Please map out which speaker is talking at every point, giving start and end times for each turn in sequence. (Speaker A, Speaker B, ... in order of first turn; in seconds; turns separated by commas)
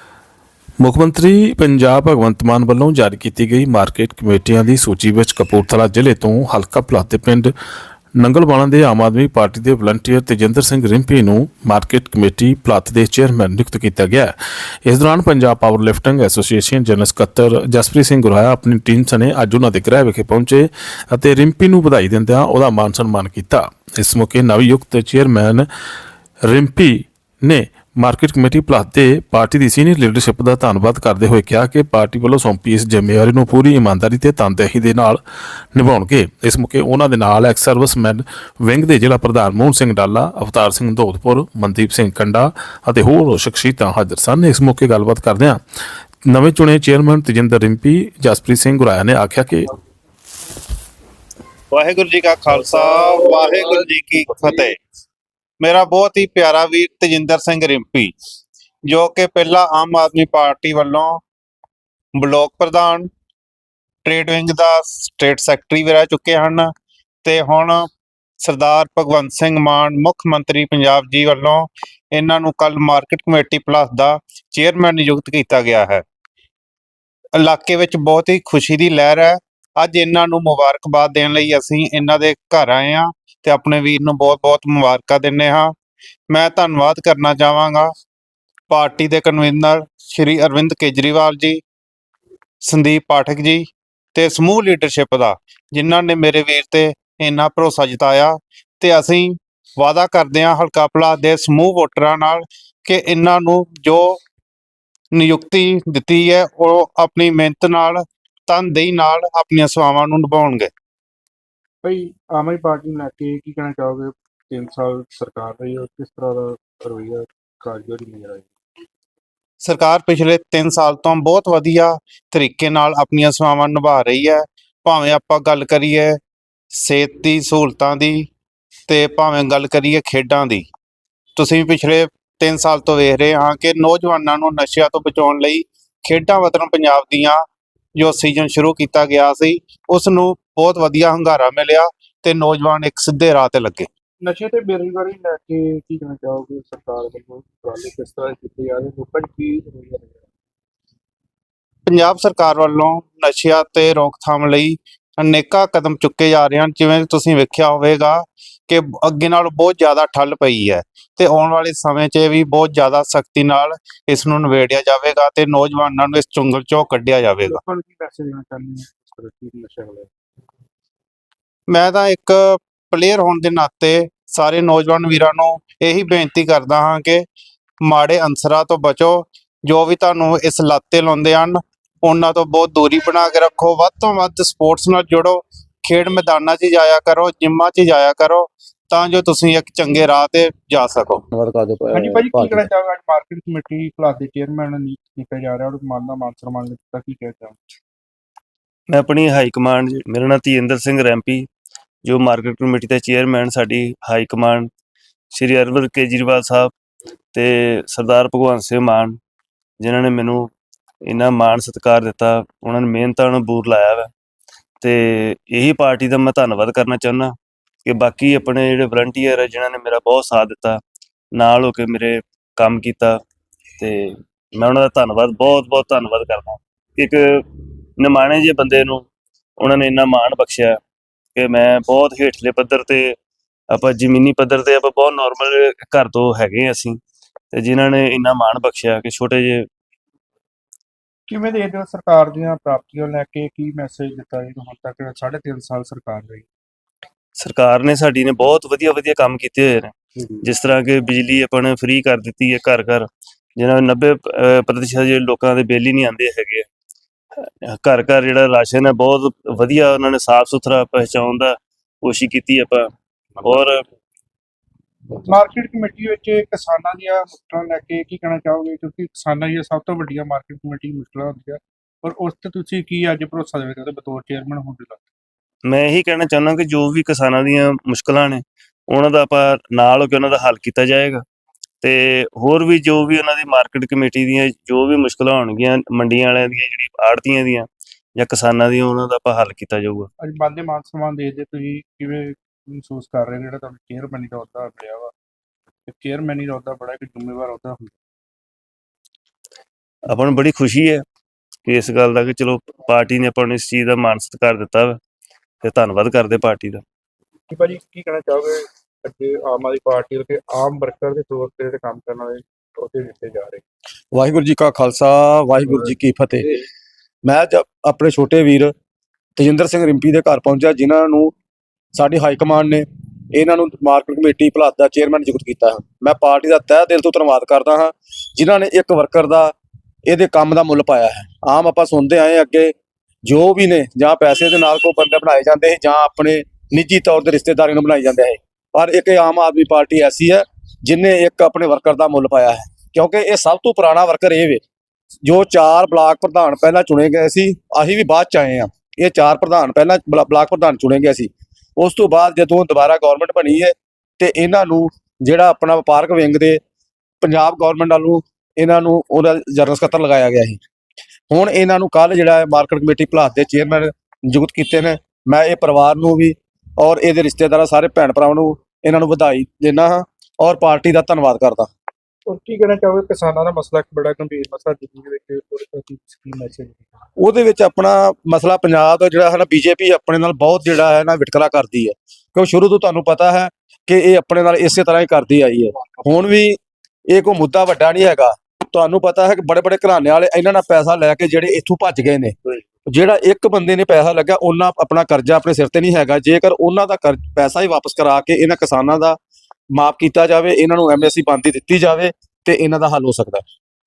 Speaker A: 0.8-7.5, Speaker A: 8.2-14.3, Speaker A: 14.8-25.7, Speaker A: 26.5-35.2, Speaker A: 35.8-45.6, Speaker A: 46.3-49.7, Speaker B: 51.7-54.8, Speaker B: 55.6-58.1, Speaker B: 58.9-61.2, Speaker B: 62.2-63.1, Speaker B: 64.0-66.7, Speaker B: 67.2-67.9, Speaker B: 68.4-76.0, Speaker B: 77.3-85.7, Speaker B: 86.3-87.9, Speaker B: 88.7-91.6, Speaker B: 92.6-104.2, Speaker B: 105.2-110.7, Speaker C: 111.8-118.5, Speaker B: 119.6-126.2, Speaker B: 126.7-128.3, Speaker B: 128.9-130.7, Speaker B: 131.4-137.4, Speaker B: 138.0-143.9, Speaker C: 144.2-150.2, Speaker B: 151.9-167.6, Speaker C: 167.4-170.1, Speaker B: 171.7-177.3, Speaker B: 177.8-191.2, Speaker D: 191.3-192.7, Speaker C: 191.9-197.7, Speaker E: 198.9-201.5, Speaker E: 202.0-204.7, Speaker E: 205.3-206.7, Speaker E: 207.3-209.2, Speaker E: 209.8-210.5, Speaker E: 211.1-214.1, Speaker E: 214.8-217.3, Speaker E: 217.8-220.8, Speaker E: 221.4-223.2, Speaker E: 223.8-227.4, Speaker E: 228.0-229.1, Speaker E: 229.6-230.8, Speaker E: 231.4-233.2, Speaker E: 233.7-237.0, Speaker E: 237.5-239.7, Speaker C: 241.3-246.5, Speaker E: 247.4-256.7, Speaker E: 257.4-262.9, Speaker E: 263.4-263.8, Speaker C: 265.2-275.0, Speaker E: 275.7-281.2, Speaker E: 281.8-290.1, Speaker C: 290.2-295.1, Speaker C: 295.9-298.0, Speaker E: 300.1-301.0, Speaker E: 301.6-305.0, Speaker E: 305.6-306.8, Speaker C: 307.5-313.6, Speaker D: 314.1-316.5, Speaker D: 317.2-318.7, Speaker D: 319.4-321.3, Speaker D: 321.9-329.5, Speaker D: 330.1-332.7, Speaker D: 333.2-344.6, Speaker D: 345.2-356.6, Speaker D: 357.2-360.6, Speaker D: 361.3-371.7, Speaker C: 372.3-376.9, Speaker D: 377.2-386.6, Speaker D: 387.1-399.2, Speaker D: 399.7-403.4